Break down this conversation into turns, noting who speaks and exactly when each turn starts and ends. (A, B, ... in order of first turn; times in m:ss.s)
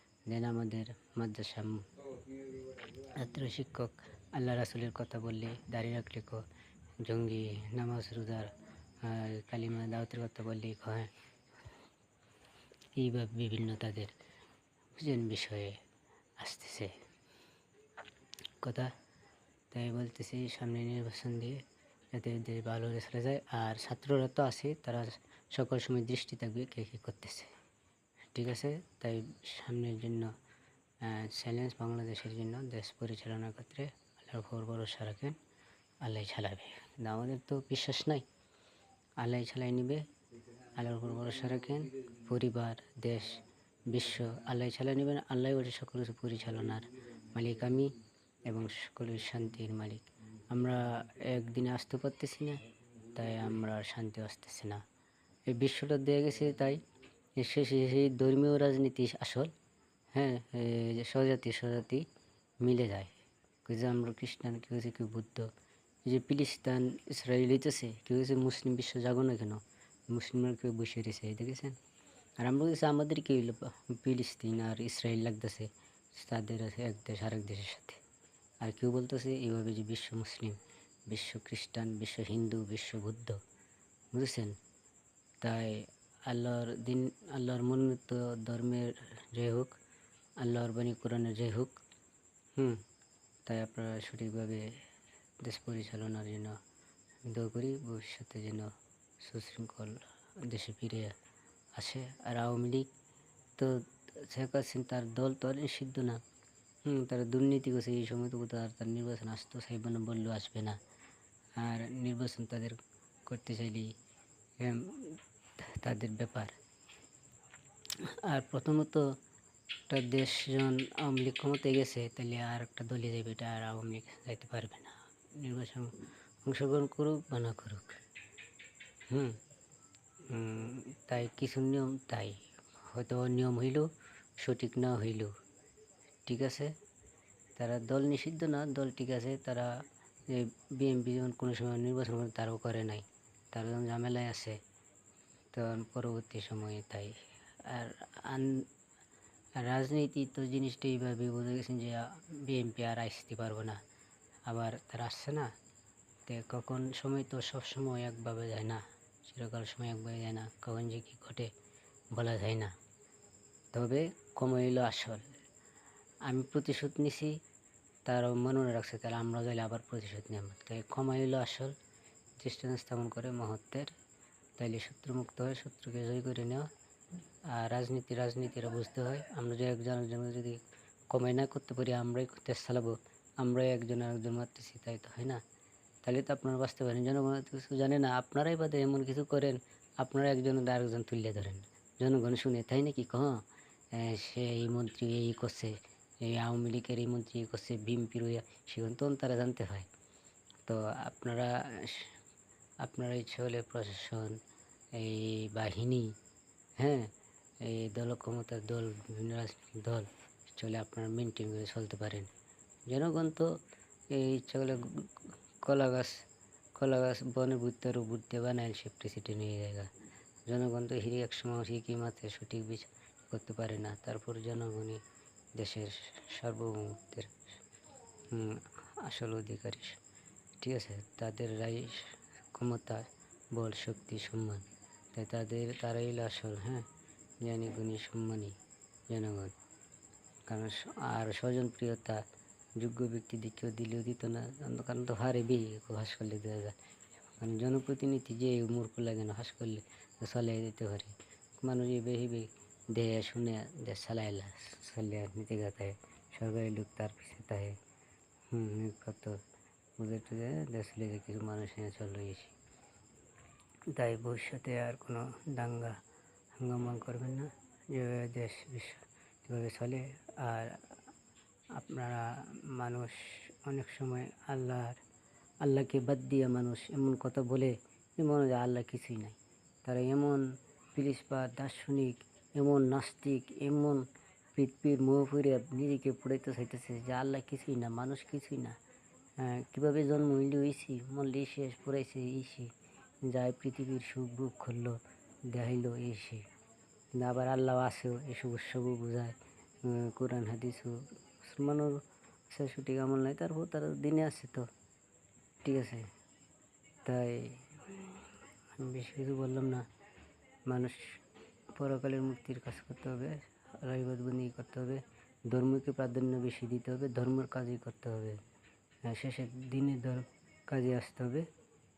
0:00.3-0:01.9 A
0:03.0-0:06.4 A
0:07.0-0:11.1 A
0:13.0-0:14.1 A
0:15.0-0:15.8 A
0:16.4-0:17.0 A
0:18.6-0:18.9 A
0:19.7-0:27.5 A
0:28.3-0:30.3 A
0:31.0-0:35.4 A
0:36.0-0:38.2 A
0:39.2-0:40.0 A
0:40.7-0:47.9 A
0:48.4-0:52.6 A
0:53.1-0:54.8 A
0:55.5-0:56.8 A
0:57.4-0:59.5 A
1:00.1-1:02.0 A
1:02.6-1:05.5 A
1:06.0-1:11.8 A
1:12.4-1:18.0 A
1:18.6-1:23.4 A
1:24.1-1:24.6 A
1:25.4-1:29.8 A
1:30.4-1:31.8 A
1:32.6-1:32.8 A
1:33.5-1:34.7 A
1:35.4-1:36.6 A
1:37.2-1:41.1 A
1:41.7-1:42.9 A
1:43.6-1:46.2 A
1:46.8-1:50.8 A
1:51.6-1:53.9 A
1:54.6-1:56.5 A
1:58.0-1:59.1 A
1:59.9-2:05.9 A
2:06.4-2:08.0 A
2:09.1-2:09.4 A
2:10.3-2:15.3 A
2:16.2-2:16.7 A
2:17.6-2:19.7 A
2:20.3-2:24.6 A
2:25.5-2:28.7 A
2:29.6-2:33.8 A
2:34.4-2:35.5 A
2:36.2-2:41.5 A
2:42.1-2:42.7 A
2:43.7-2:45.3 A
2:46.2-2:47.4 A
2:48.0-2:51.7 A
2:52.4-2:53.9 A
2:54.6-2:56.7 A
2:57.5-3:05.4 A
3:06.0-3:19.9 A
3:20.6-3:22.1 A
3:22.8-3:24.4 A
3:24.9-3:26.2 A
3:26.8-3:32.3 A
3:32.9-3:33.5 A
3:34.1-3:36.2 A
3:36.8-3:39.9 A
3:40.5-3:45.0 A
3:45.6-3:47.5 A
3:48.3-3:50.0 A
3:50.6-3:56.8 A
3:57.4-3:58.6 A
3:59.1-3:59.5 A
4:00.5-4:02.2 A
4:02.8-4:06.8 A
4:07.4-4:17.8 A
4:18.5-4:19.4 A
4:20.0-4:22.5 A
4:23.9-4:26.0 A
4:26.6-4:31.0 A
4:31.7-4:35.0 A
4:35.6-4:48.8 A
4:49.4-4:52.7 A
4:53.2-4:56.4 A
4:57.1-5:04.7 A
5:05.6-5:06.1 A
5:07.0-5:09.8 A
5:10.7-5:11.2 A
5:11.7-5:18.4 A
5:19.0-5:21.4 A